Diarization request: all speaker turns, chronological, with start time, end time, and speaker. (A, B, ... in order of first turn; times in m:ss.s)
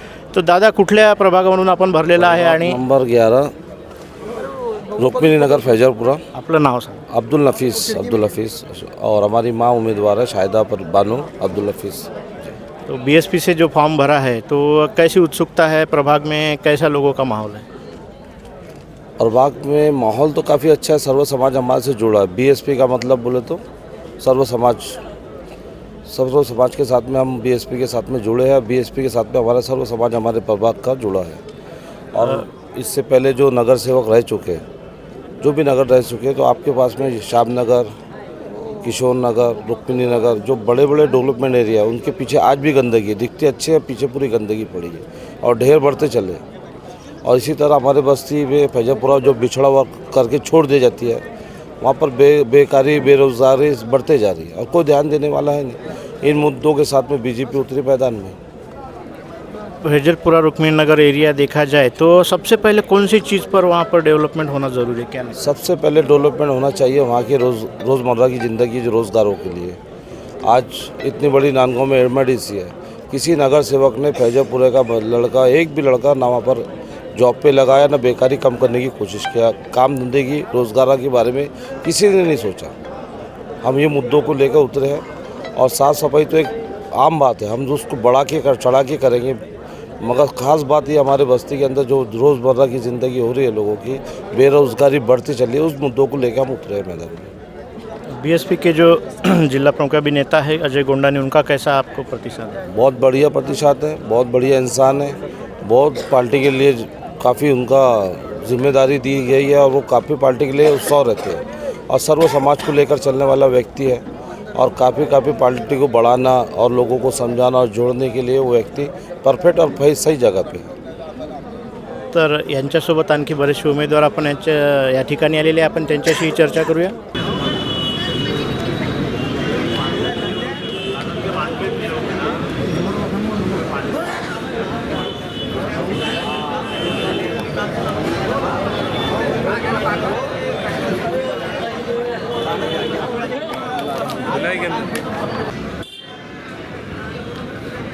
0:00.3-0:02.8 A
0:02.2-0:03.5 B
0:04.9-0:06.2 B
0:06.3-0:07.0 A
0:07.1-0:12.1 B
0:12.9-0:17.6 A
0:19.2-0:23.6 B
0:24.2-0:25.0 B
0:26.1-0:31.4 B
0:32.1-0:34.6 B
0:35.4-0:37.9 B
0:38.7-0:46.4 B
0:47.2-0:51.2 B
0:51.8-0:58.4 B
0:59.8-1:05.4 A
1:05.4-1:09.8 B
1:10.4-1:22.7 B
1:23.6-1:29.4 B
1:30.0-1:37.3 B
1:38.1-1:42.6 A
1:42.7-1:54.0 B
1:54.5-2:00.7 B
2:02.1-2:07.0 A